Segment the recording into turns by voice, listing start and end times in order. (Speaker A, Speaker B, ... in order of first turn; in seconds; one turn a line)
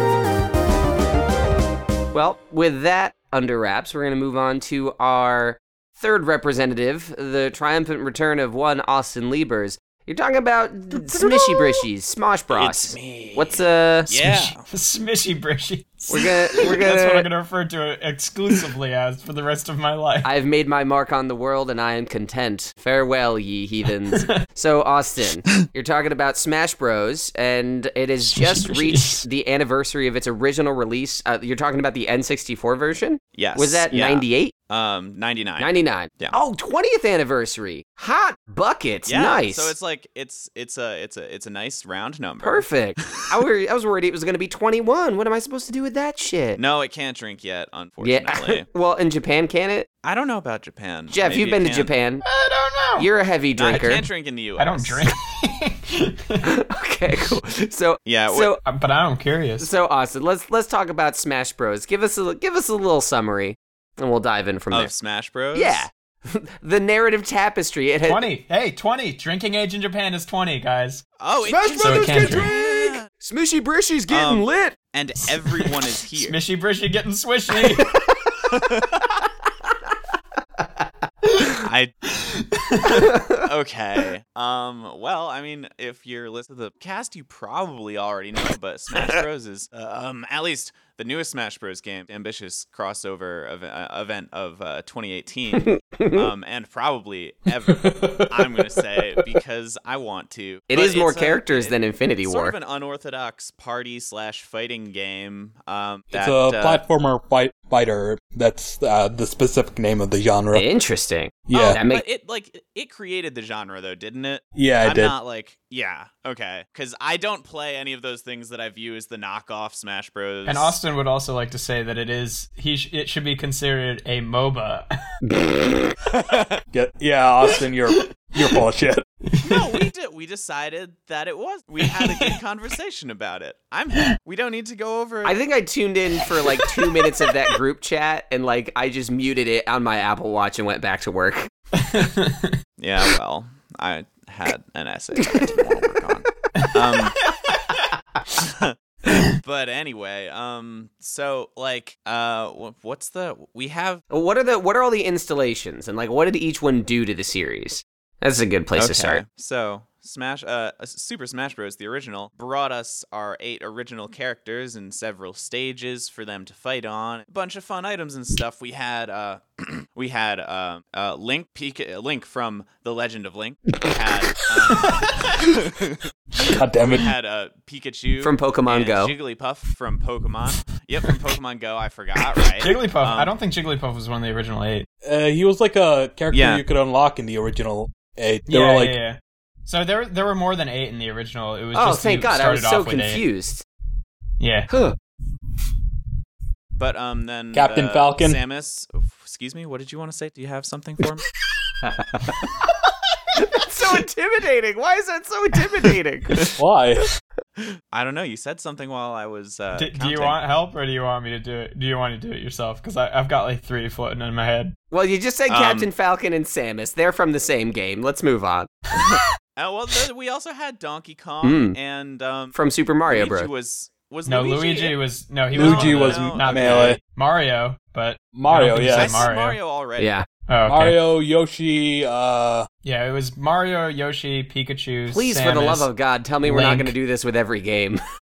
Speaker A: 2.1-14.1
Speaker B: 11.2-11.8
Speaker C: 12.5-14.6
Speaker B: 14.1-20.3
Speaker A: 16.1-17.3
Speaker A: 20.2-34.5
Speaker B: 28.2-29.3
Speaker C: 33.4-36.4
Speaker A: 35.6-39.7
Speaker C: 39.1-43.2
Speaker A: 42.4-46.6
Speaker C: 46.6-48.7
Speaker A: 48.0-49.9
Speaker C: 50.0-51.9
Speaker A: 51.1-52.2
Speaker B: 52.2-53.1
Speaker A: 53.0-54.0
Speaker C: 53.6-55.1
Speaker B: 54.6-56.5
Speaker A: 56.6-58.6
Speaker C: 58.1-58.5
Speaker B: 58.6-59.7
Speaker A: 59.6-64.9
Speaker C: 64.7-65.8
Speaker A: 65.5-68.2
Speaker B: 68.1-71.0
Speaker C: 71.2-73.1
Speaker A: 71.5-74.8
Speaker B: 71.8-72.5
Speaker C: 74.1-76.4
Speaker B: 76.2-77.9
Speaker C: 78.5-79.1
Speaker C: 81.6-82.0
Speaker B: 82.2-83.0
Speaker A: 83.0-83.4
Speaker C: 83.3-106.8
Speaker A: 95.5-96.3
Speaker D: 97.8-98.6
Speaker A: 100.7-102.5
Speaker D: 106.1-110.7
Speaker A: 110.5-112.0
Speaker D: 111.5-111.8
Speaker C: 111.6-120.8
Speaker D: 114.6-115.1
Speaker B: 120.5-124.9
Speaker A: 125.3-126.0
Speaker D: 126.7-129.1
Speaker B: 129.3-129.8
Speaker C: 129.4-135.4
Speaker B: 131.8-132.3
Speaker A: 135.2-141.5
Speaker B: 141.8-142.6
Speaker C: 142.8-147.2
Speaker A: 145.2-145.6
Speaker C: 148.4-148.7
Speaker C: 149.3-154.0
Speaker A: 154.1-159.2
Speaker C: 158.8-183.3
Speaker B: 174.8-175.4
Speaker D: 176.6-177.1
Speaker A: 178.2-179.1
Speaker B: 182.6-184.9
Speaker D: 185.1-189.0
Speaker C: 186.3-186.6
Speaker B: 188.5-193.2
Speaker A: 191.7-193.7
Speaker B: 194.4-194.7
Speaker A: 194.7-195.0
Speaker C: 196.8-201.3
Speaker D: 197.5-198.4
Speaker A: 201.8-202.5
Speaker A: 203.3-206.6
Speaker D: 206.6-207.1
Speaker C: 207.9-210.4
Speaker B: 209.7-214.8
Speaker A: 214.9-218.8
Speaker C: 215.5-215.9
Speaker C: 219.0-225.0
Speaker A: 221.4-221.8
Speaker A: 222.5-223.5
Speaker B: 224.3-229.6
Speaker C: 225.5-227.0
Speaker D: 225.6-227.0
Speaker D: 228.3-229.3
Speaker C: 229.0-230.2
Speaker A: 230.0-230.3
Speaker B: 230.5-231.0
Speaker D: 230.7-232.7
Speaker B: 232.8-235.9
Speaker A: 235.1-238.0
Speaker B: 236.4-236.9